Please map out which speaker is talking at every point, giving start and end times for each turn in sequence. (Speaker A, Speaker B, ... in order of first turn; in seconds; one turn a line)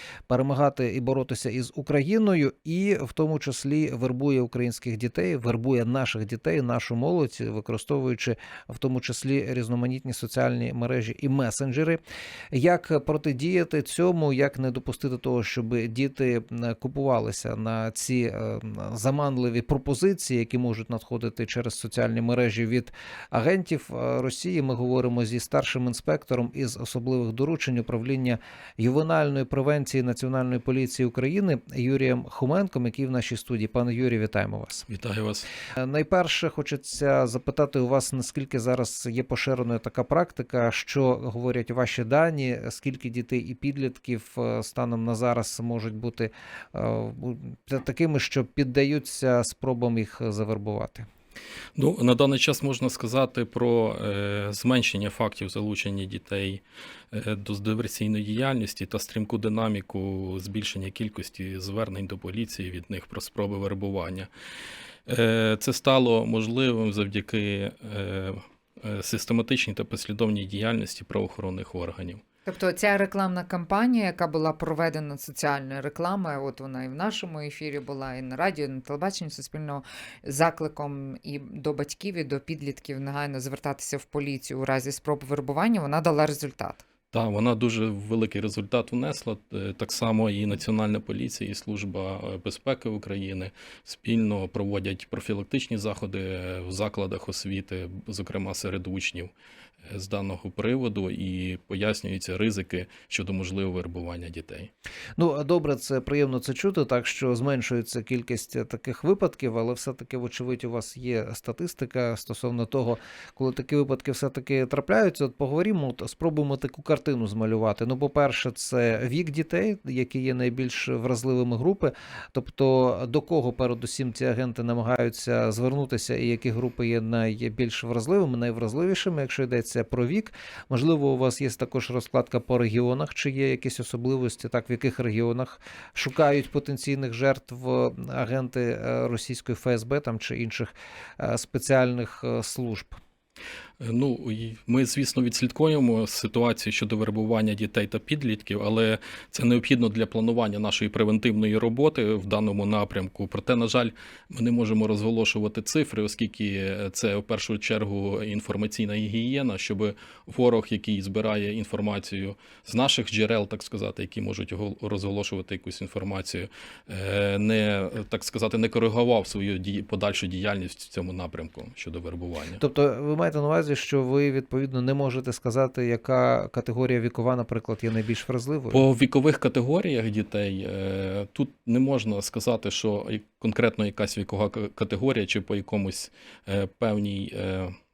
Speaker A: 0.3-12.0
Speaker A: 12.5-34.9
Speaker B: 34.9-35.5
Speaker A: 35.8-51.1
Speaker B: 51.8-64.3
Speaker B: 65.0-72.2
Speaker C: 72.5-86.8
Speaker B: 87.1-99.3
Speaker B: 99.8-104.7
Speaker A: 105.2-143.0
Speaker B: 143.8-172.6
Speaker A: 172.6-178.8
Speaker B: 178.7-187.8